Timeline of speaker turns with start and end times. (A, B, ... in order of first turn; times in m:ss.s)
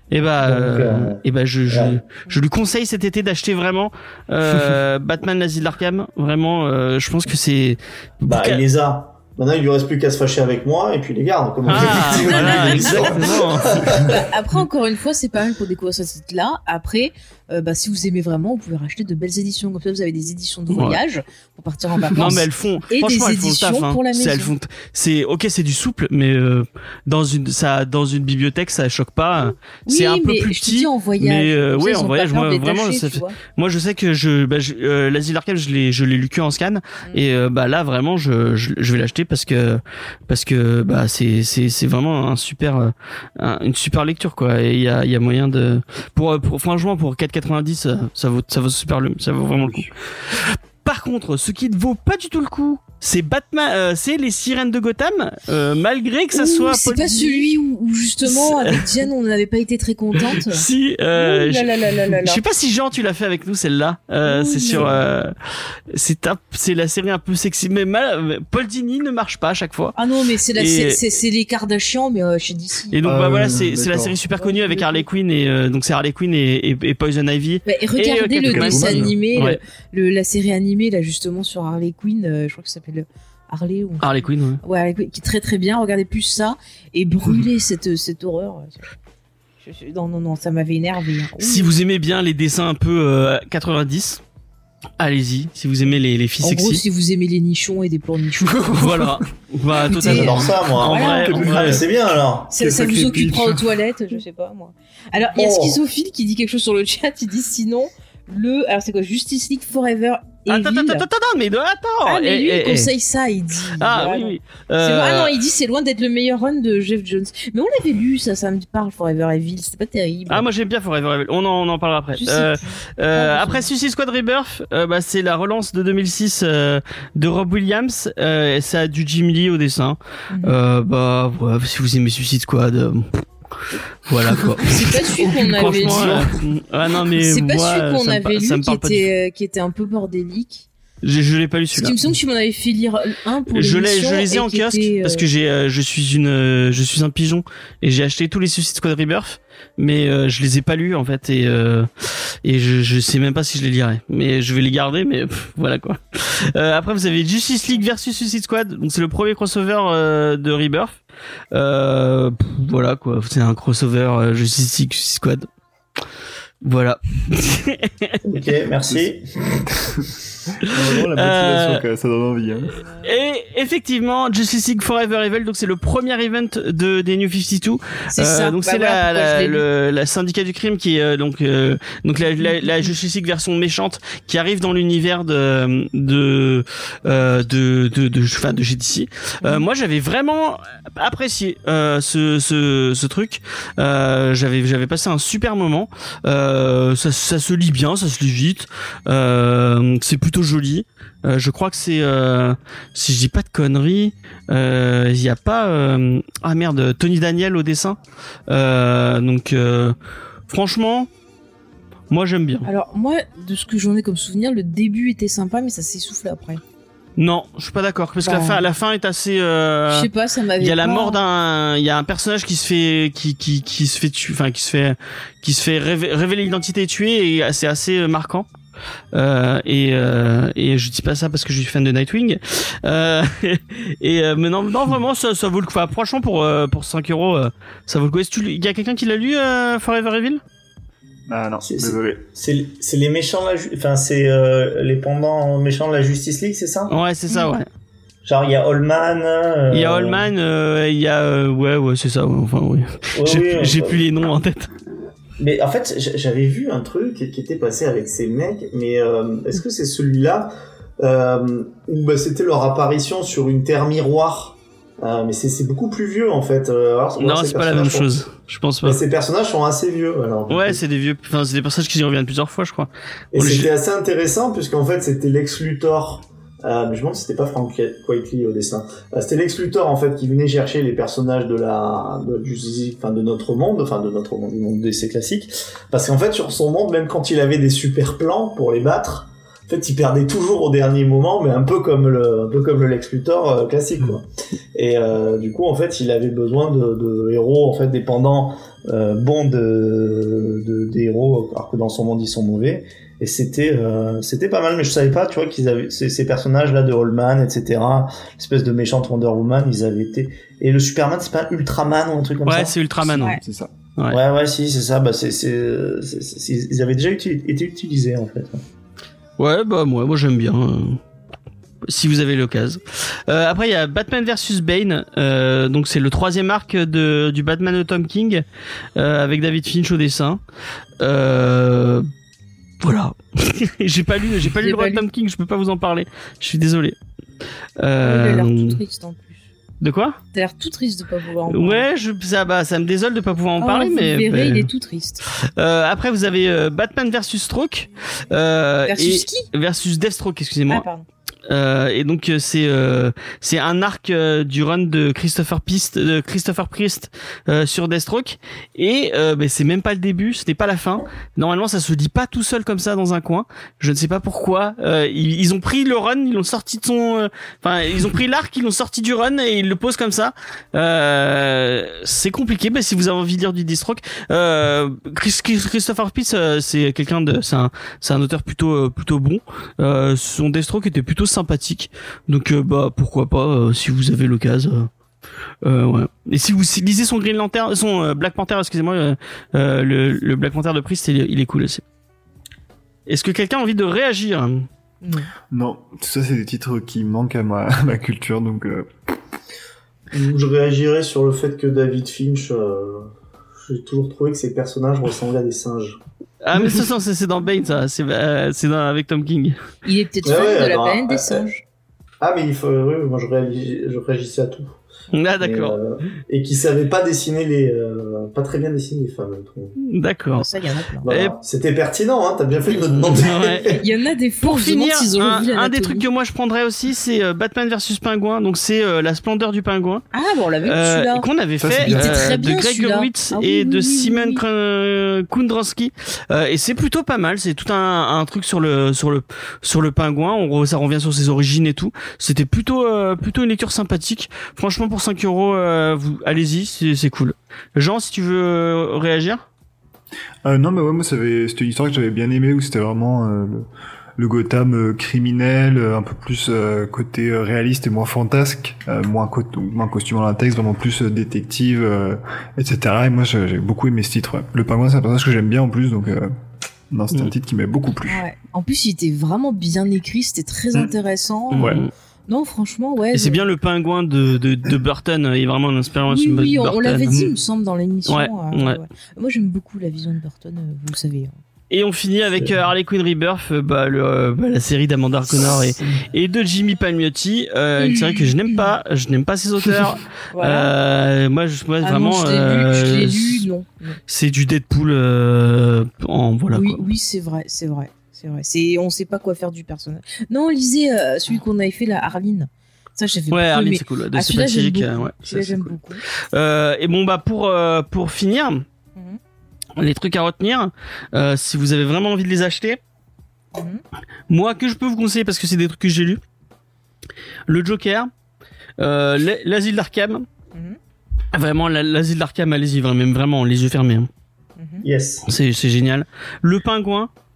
0:00.1-0:08.6 A
0:00.4-0:02.0 B
0:08.2-0:14.2 B
0:11.6-0:14.0 A
0:12.1-0:13.1 C
0:13.9-0:24.5 C
0:20.7-0:21.0 A
0:22.1-0:57.5 A
0:29.8-0:33.4 C
0:49.6-0:49.9 D
0:56.3-1:02.4 C
0:58.2-0:59.0 A
1:00.3-1:05.3 A
1:04.2-1:04.9 C
1:04.7-1:05.0 D
1:05.9-1:10.0 A
1:10.0-1:13.0 C
1:10.5-1:11.0 A
1:12.9-1:19.6 A
1:13.0-1:14.1 D
1:14.4-1:15.0 C
1:17.6-1:28.8 C
1:18.5-1:19.1 D
1:24.0-1:24.6 A
1:29.6-1:31.8 C
1:31.4-1:34.2 A
1:35.0-1:36.8 A
1:36.4-1:39.0 C
1:38.5-1:39.2 D
1:38.7-1:41.8 A
1:39.9-1:41.4 C
1:40.0-1:42.5 B
1:41.2-1:41.8 D
1:42.5-1:51.0 C
1:42.6-1:43.6 D
1:45.3-1:45.8 B
1:50.5-1:52.9 A
1:52.0-2:00.4 C
1:53.8-1:55.3 A
2:00.3-2:13.2 A
2:02.1-2:03.7 C
2:10.3-2:10.6 C
2:14.1-2:19.0 A
2:14.6-2:16.3 C
2:15.2-2:16.1 D
2:17.2-2:20.7 C
2:21.0-2:22.0 A
2:21.7-2:25.2 C
2:23.5-2:31.9 A
2:32.4-2:41.0 A
2:41.5-2:45.5 A
2:46.6-2:48.2 A
2:48.2-2:49.7 B
2:49.7-2:50.1 D
2:50.6-2:52.8 D
2:50.6-2:51.8 A
2:53.0-3:30.0 A
2:58.1-2:59.6 C
3:02.4-3:02.7 C
3:30.5-3:31.1 A
3:32.1-3:32.7 A
3:32.6-3:36.6 C
3:37.2-3:48.5 A
3:38.2-3:38.6 C
3:39.9-3:41.2 C
3:49.1-4:00.4 A
4:01.3-4:02.2 D
4:01.6-4:06.9 B
4:06.9-4:07.7 A
4:08.2-4:10.3 B
4:09.7-4:14.7 A
4:13.1-4:14.0 B
4:15.4-4:28.1 B
4:27.2-4:29.0 A
4:28.8-4:30.8 B
4:30.5-4:33.7 A
4:33.3-5:12.8 B
5:12.4-5:13.4 A
5:13.2-5:13.7 D
5:14.1-5:18.6 B
5:19.4-5:21.0 A
5:21.8-5:28.4 A
5:29.0-5:30.4 A
5:31.0-5:32.1 A
5:32.8-5:37.0 A
5:34.6-5:35.0 C
5:37.8-5:38.8 A
5:38.0-5:39.4 C
5:39.8-5:40.2 A
5:40.3-5:41.8 C
5:41.5-5:44.7 A
5:43.6-5:45.2 C
5:45.3-5:50.8 A
5:48.9-5:49.5 C
5:50.7-5:51.0 C
5:51.5-6:24.9 A
6:25.6-6:31.8 A
6:33.1-6:34.7 A
6:35.0-6:35.3 C
6:35.5-6:38.9 D
6:40.1-6:43.1 B
6:43.6-6:46.0 B
6:46.4-6:49.6 A
6:49.8-6:51.6 C
6:50.2-6:51.5 B
6:52.2-6:54.8 B
6:55.1-6:55.8 A
6:55.4-6:59.7 B
6:59.8-7:00.5 A
7:00.4-7:01.1 C
7:01.0-7:03.8 B
7:01.1-7:01.3 A
7:03.1-7:03.8 A
7:03.8-7:06.0 C
7:04.4-7:10.0 A
7:10.1-7:11.2 C
7:10.6-7:29.4 A
7:11.6-7:12.2 D
7:11.8-7:14.4 C
7:30.4-7:33.6 D
7:34.2-7:46.3 D
7:46.9-7:48.2 D
7:48.0-7:53.4 C
7:51.5-7:51.8 D
7:51.5-7:51.9 A
7:53.1-7:57.2 A
7:56.1-8:01.3 C
7:58.1-7:58.8 A
8:01.7-8:13.4 A
8:07.8-8:08.5 C
8:10.3-8:10.7 C
8:11.8-8:14.0 C
8:14.1-8:16.8 A
8:16.5-8:26.0 C
8:23.3-8:25.8 A
8:26.3-8:28.6 A
8:29.8-8:32.8 A
8:33.5-8:33.8 C
8:34.3-8:36.2 A
8:37.5-8:38.1 A
8:38.8-8:40.2 A
8:41.3-8:44.1 A
8:44.6-8:44.8 C
8:44.8-8:45.3 B
8:45.3-8:47.1 A